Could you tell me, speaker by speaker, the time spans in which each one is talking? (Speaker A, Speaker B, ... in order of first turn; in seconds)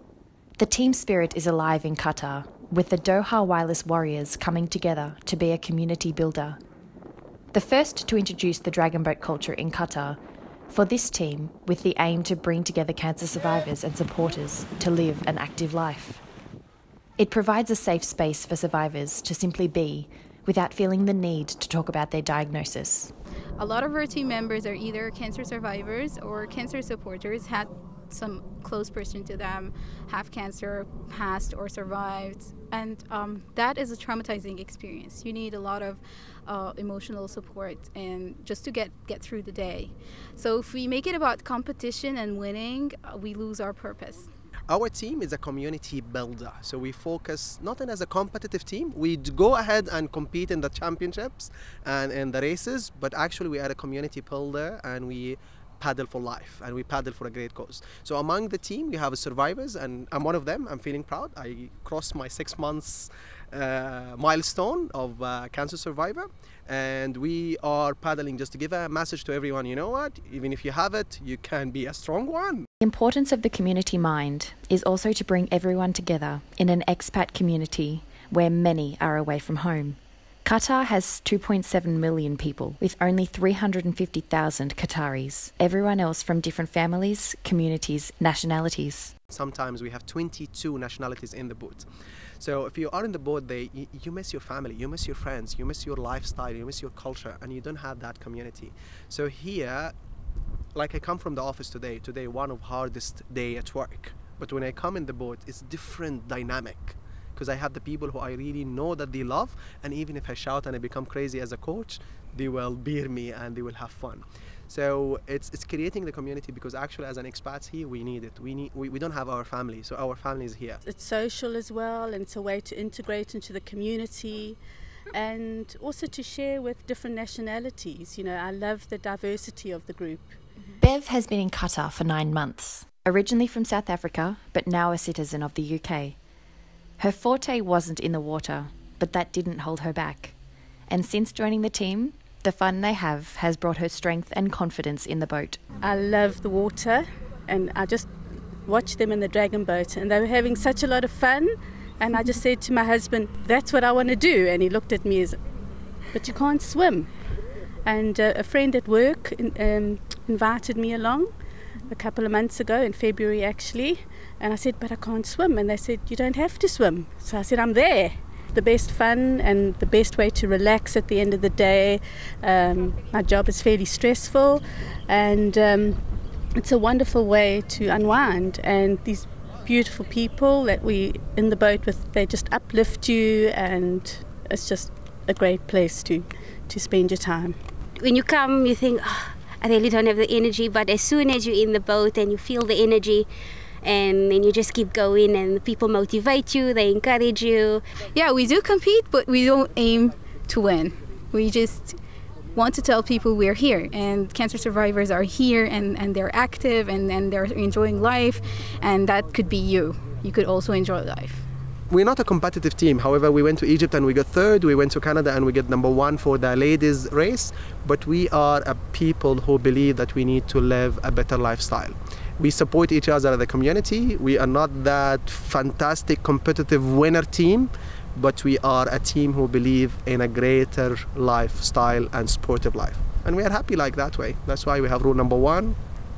Speaker A: 0.6-6.6, 7.5-10.2, 10.7-16.2, 17.2-23.1, 72.8-89.1, 130.8-136.2, 137.0-140.3, 140.9-145.6
Speaker B: 23.6-44.3, 198.1-202.0, 202.5-211.5
Speaker C: 44.7-72.7, 89.3-91.9, 92.4-99.9, 100.7-120.8, 211.9-235.8
Speaker D: 120.8-124.6, 125.1-130.4, 145.8-148.1, 148.6-155.4, 156.1-157.1, 157.8-161.3, 161.9-176.0, 176.6-187.6
Speaker E: 188.0-193.3, 193.8-197.8